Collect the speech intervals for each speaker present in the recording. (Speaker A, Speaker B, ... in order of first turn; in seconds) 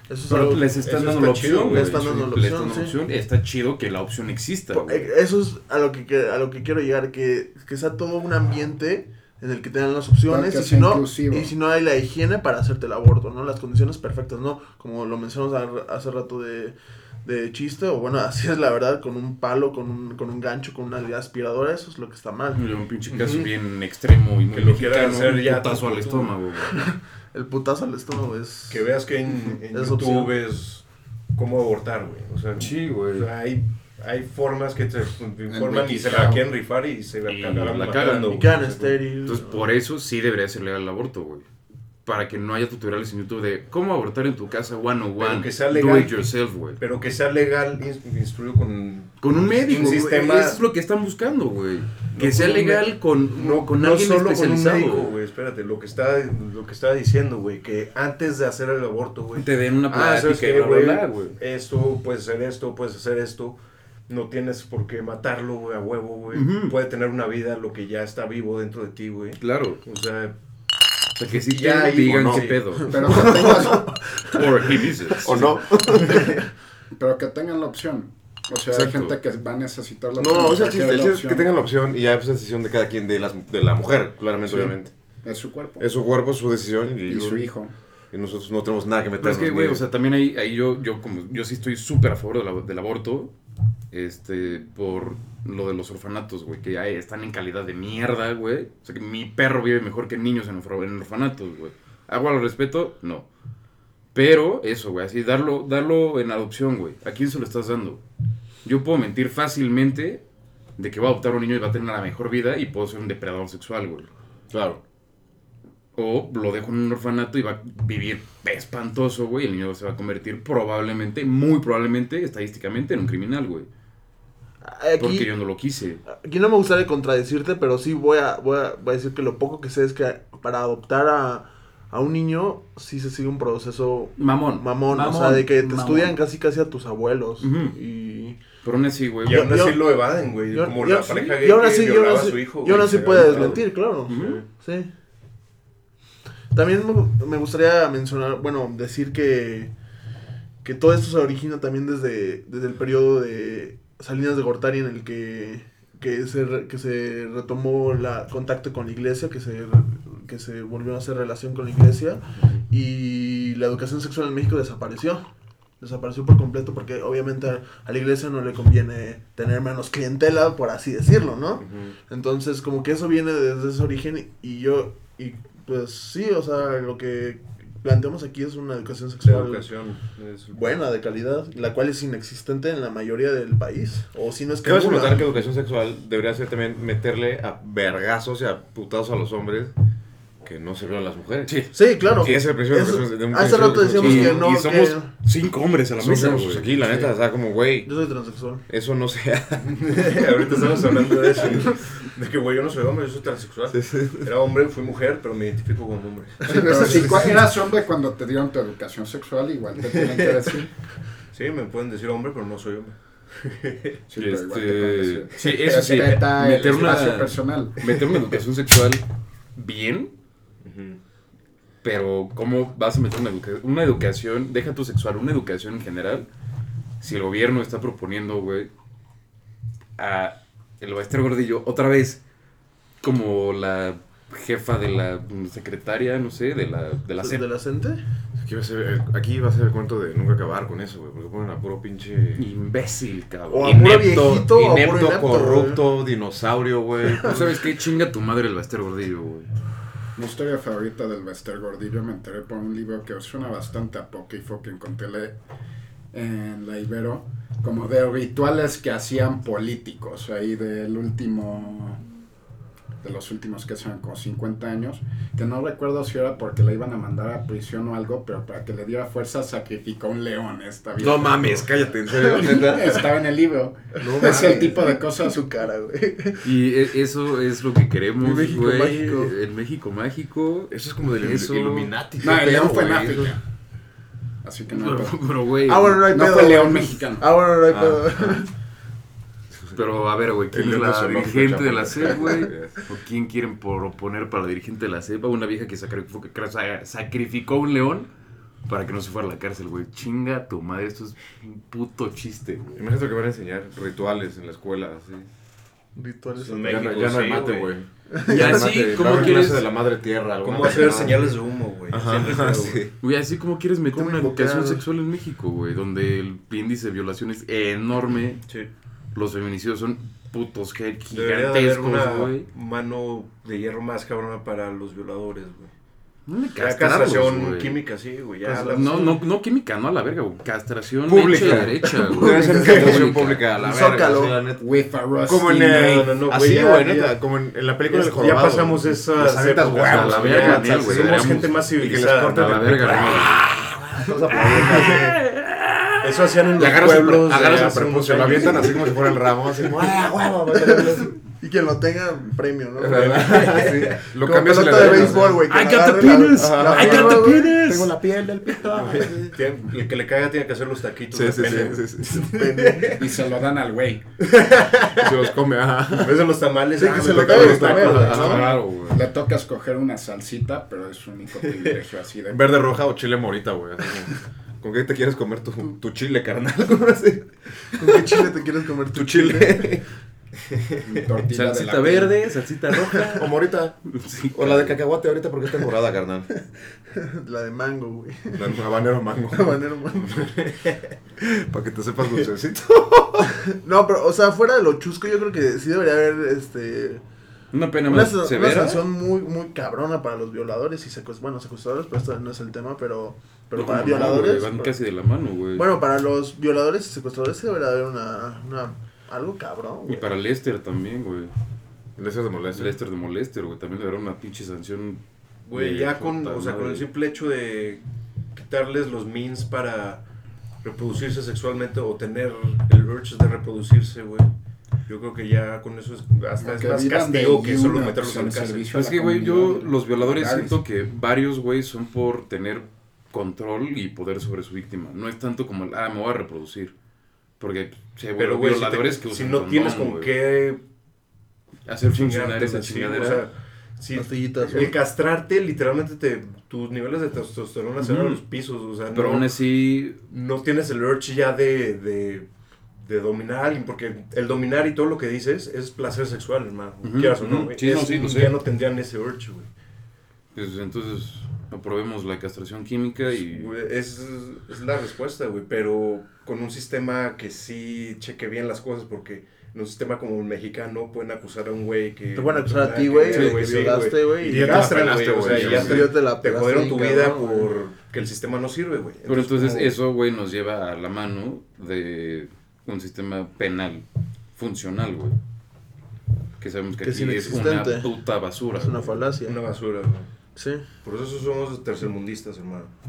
Speaker A: 0.1-0.7, 1.7-3.0, 4.7-22.6, 26.7-28.9, 29.7-30.3, 38.3-39.6, 73.1-74.3, 124.6-125.3, 126.1-138.4, 139.2-144.9, 146.5-149.7, 150.6-165.2, 165.8-179.7, 180.5-185.3, 191.7-195.1, 197.8-198.6, 206.5-206.9, 237.2-238.0, 243.5-245.8, 274.0-276.5, 278.2-279.3, 285.7-288.5, 305.9-307.0, 308.1-308.7, 313.9-314.8, 331.4-334.4, 350.5-357.5, 362.1-363.0, 366.8-368.4, 377.8-379.8, 386.9-388.6, 389.3-390.3, 393.5-397.0, 397.9-404.8, 405.5-410.1, 443.9-444.8, 472.1-474.8, 475.3-477.5, 486.8-487.9, 488.6-489.4, 490.4-490.7
Speaker B: 0.3-5.1, 22.5-26.8, 32.6-33.3, 37.2-38.6, 39.2-41.4, 42.1-46.8, 49.2-55.1, 59.4-61.4, 66.3-66.8, 69.4-69.8, 71.2-73.6, 74.2-76.1, 78.7-79.1, 89.2-93.3, 93.9-103.3, 104.1-108.0, 108.6-110.2, 110.8-114.1, 116.0-123.7, 125.0-126.0, 134.2-136.1, 137.4-137.8, 138.6-139.6, 144.1-144.4, 191.5-192.4, 193.9-196.7, 214.2-219.1, 219.6-220.1, 221.8-226.3, 227.0-228.7, 230.0-232.2, 233.0-237.4, 242.4-244.2, 247.2-249.5, 276.4-281.9, 284.7-286.1, 289.7-298.1, 298.6-302.8, 308.3-309.7, 313.0-318.4, 319.1-322.5, 326.3-327.8, 328.4-333.4, 339.8-341.7, 342.3-343.5, 344.3-346.7, 355.2-357.9, 368.2-369.0, 381.3-383.3, 383.9-384.8, 397.5-398.9, 403.6-405.7, 409.9-411.3, 412.5-415.0, 415.5-416.9, 428.7-436.7, 437.4-440.1, 441.6-443.2, 447.8-448.2, 448.9-450.0, 456.8-458.4, 460.4-463.5, 473.1-473.8, 475.3-475.6, 479.1-483.8, 484.4-485.2, 486.4-489.1
Speaker C: 0.8-2.2, 23.1-23.5, 24.5-26.3, 28.7-39.0, 45.2-46.1, 46.8-50.6, 52.1-70.3, 71.5-72.9, 139.2-144.4, 179.2-180.7, 199.6-207.2, 210.0-210.4, 211.3-213.9, 220.6-221.0, 306.4-307.7, 310.4-312.8, 321.1-325.7, 326.6-329.2, 335.3-337.2, 337.9-343.3, 346.0-348.9, 352.9-354.0, 358.8-363.1, 364.2-365.3, 365.9-368.6, 382.7-383.0, 390.4-390.7, 415.4-417.8, 418.4-420.0, 420.6-424.3, 424.9-428.7, 438.2-440.6, 441.9-449.3, 450.1-452.3, 452.8-459.5, 463.2-479.7, 489.2-490.1, 490.8-492.7
Speaker D: 10.3-11.5, 35.5-36.5, 72.8-73.9, 76.9-81.5, 85.2-85.8, 87.1-87.7, 206.5-210.7, 214.1-218.0, 250.2-255.4, 256.1-262.0, 263.0-275.4, 282.2-283.4, 284.4-285.2, 286.0-287.3, 334.6-336.2, 358.8-359.0, 363.0-364.1, 368.0-372.4, 380.9-382.1, 426.4-430.6
Speaker E: 72.0-72.5, 75.2-76.3, 80.2-84.9, 85.8-87.5, 88.1-89.8, 114.5-114.8, 184.6-189.7, 190.4-194.5, 196.0-197.9, 198.7-199.7, 201.4-201.6, 203.7-204.3, 238.4-242.4, 243.6-247.5, 271.0-273.0, 274.0-274.6, 280.7-283.4, 287.7-288.4, 290.5-292.8, 302.8-305.3, 306.6-311.4, 311.9-312.9, 331.1-334.7, 335.2-345.2, 346.6-351.1, 352.8-355.4, 356.4-359.2, 361.1-362.2, 365.0-366.3, 366.8-368.6, 372.3-378.2, 378.9-379.8, 383.1-383.8, 384.3-386.3, 388.4-390.3, 391.2-393.3, 412.0-412.8, 474.3-475.9